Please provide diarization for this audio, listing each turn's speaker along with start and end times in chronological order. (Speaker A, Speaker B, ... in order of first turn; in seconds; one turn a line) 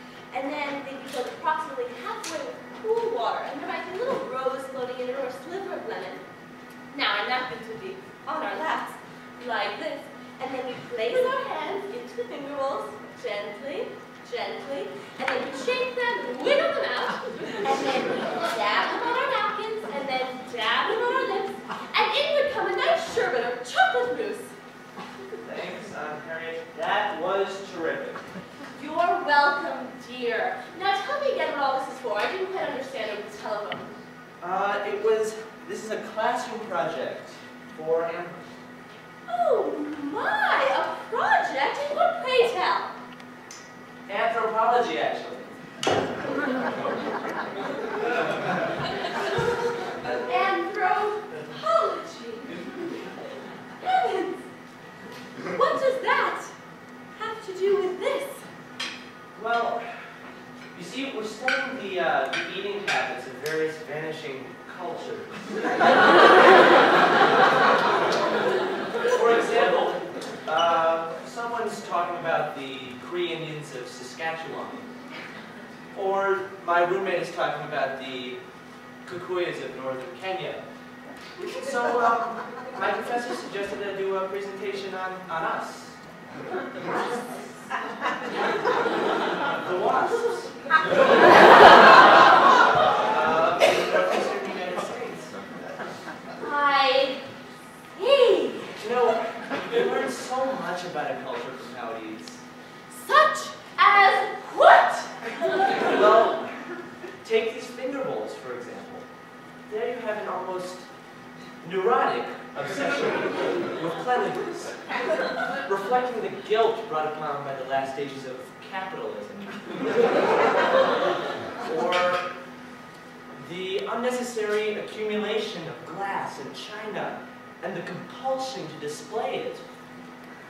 Speaker A: 0.3-6.2
Speaker A: 6.9-24.5
Speaker B: 25.4-28.2
Speaker A: 28.8-34.0
Speaker B: 34.4-38.5
Speaker A: 39.3-43.0
Speaker B: 44.1-45.6
Speaker B: 46.6-47.1
Speaker A: 50.3-52.5
Speaker A: 53.9-54.3
Speaker A: 55.5-56.5
Speaker A: 57.2-58.4
Speaker B: 59.3-59.9
Speaker B: 60.7-66.0
Speaker B: 69.1-74.8
Speaker B: 75.9-78.4
Speaker B: 79.0-80.6
Speaker B: 81.4-86.0
Speaker B: 89.5-90.9
Speaker B: 93.0-95.3
Speaker A: 96.4-97.2
Speaker A: 97.9-98.8
Speaker B: 98.8-102.4
Speaker A: 102.9-105.1
Speaker B: 105.8-106.5
Speaker B: 107.2-109.1
Speaker B: 109.7-110.8
Speaker B: 111.6-114.8
Speaker B: 115.6-120.1
Speaker B: 121.6-122.2
Speaker B: 123.3-129.6